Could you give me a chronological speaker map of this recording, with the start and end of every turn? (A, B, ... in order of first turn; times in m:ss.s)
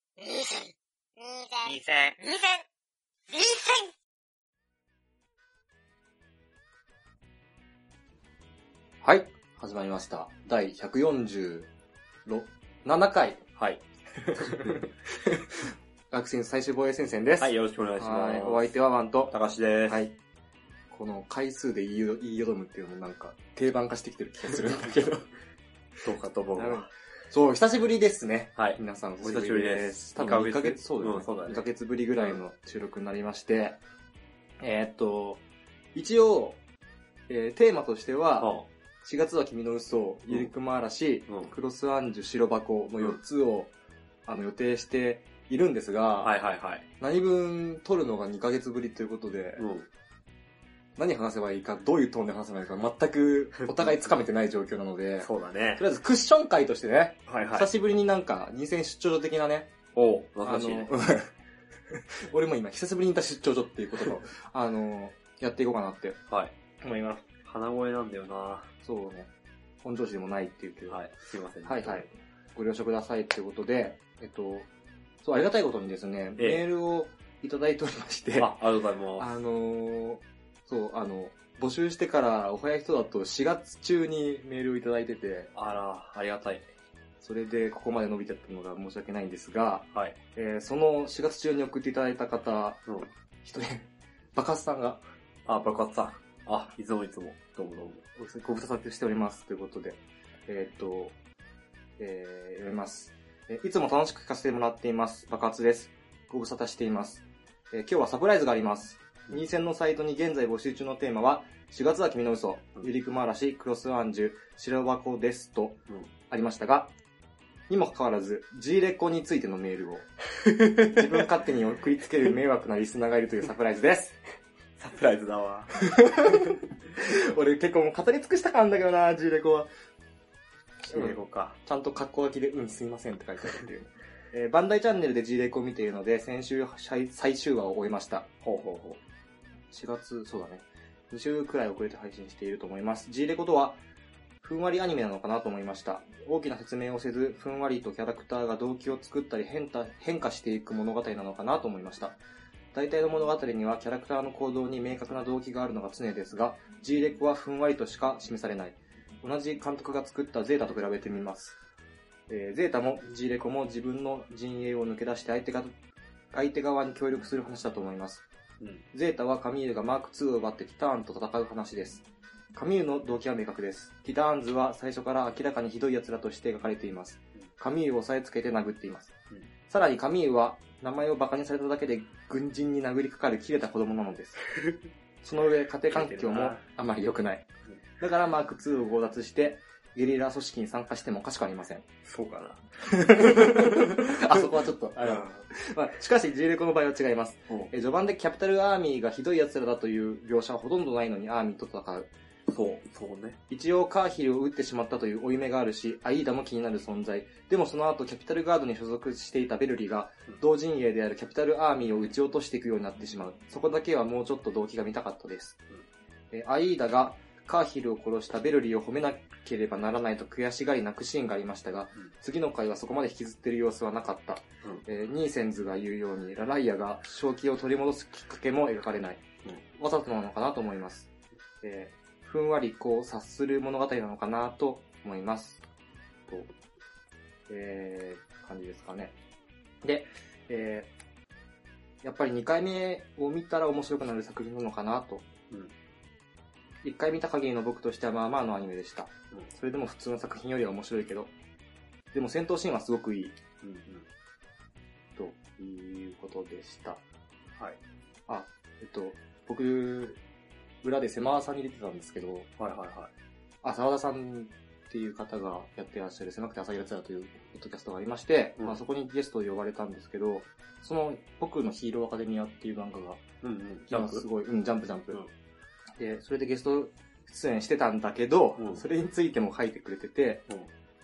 0:00.2-0:02.6 A
0:03.3-0:03.9 A
0:09.0-0:11.7 B
0:12.2-0:19.3 B
0:17.4-0:18.7 C
0:19.3-0:20.0 C
0:19.9-0:20.1 B
0:20.9-0:25.3 B
0:26.0-0:26.9 C
0:26.6-0:33.8 B
0:28.6-0:31.7 C
0:34.6-0:35.4 B
0:35.9-0:36.6 B
0:37.3-0:38.5 B
0:38.4-0:38.7 C
0:39.0-0:43.7 B
0:44.2-0:46.3 B
0:46.2-0:46.8 C
0:47.0-0:49.6 B
0:49.6-0:49.9 C
0:51.0-0:59.7 B
0:53.6-0:54.0 C
0:55.2-0:55.8 C
0:57.3-0:57.7 C
0:59.9-1:00.9 C
1:00.4-1:01.3 B
1:02.3-1:06.2 B
1:06.8-1:07.2 B
1:07.4-1:08.7 C
1:08.8-1:09.3 B
1:09.8-1:11.0 B
1:10.9-1:12.1 C
1:11.6-1:14.7 B
1:15.2-1:18.6 B
1:16.4-1:16.6 C
1:18.4-1:19.4 C
1:19.2-1:25.5 B
1:25.5-1:26.7 C
1:27.2-1:32.8 B
1:33.4-1:35.0 B
1:35.4-1:38.0 C
1:38.2-1:41.2 B
1:42.0-1:56.9 B
1:57.7-2:00.1 B
2:00.6-2:00.9 C
2:00.7-2:04.1 B
2:04.8-2:05.7 C
2:05.8-2:09.7 B
2:10.8-2:11.6 C
2:10.9-2:18.3 B
2:18.4-2:19.0 C
2:19.7-2:23.8 B
2:24.4-2:32.2 B
2:32.7-2:41.6 B
2:42.3-2:45.8 B
2:46.3-2:48.2 B
2:48.9-2:59.1 B
2:59.7-3:04.4 B
3:05.2-3:07.4 B
3:05.9-3:06.6 C
3:08.0-3:11.8 B
3:12.0-3:15.4 C
3:12.9-3:22.1 B
3:22.5-3:23.4 C
3:23.5-3:35.6 B
3:36.3-3:49.2 B
3:49.7-3:51.1 B
3:51.6-3:55.6 B
3:57.5-3:59.1 B
3:59.8-4:00.9 B
4:02.0-4:05.3 B
4:06.8-4:11.3 B
4:12.1-4:13.4 B
4:13.6-4:14.1 C
4:15.2-4:17.0 B
4:18.3-4:20.2 B
4:20.8-4:22.5 B
4:22.6-4:23.1 C
4:23.6-4:33.2 B
4:33.4-4:34.2 C
4:33.9-4:35.2 B
4:36.0-4:40.5 B
4:38.6-4:38.8 C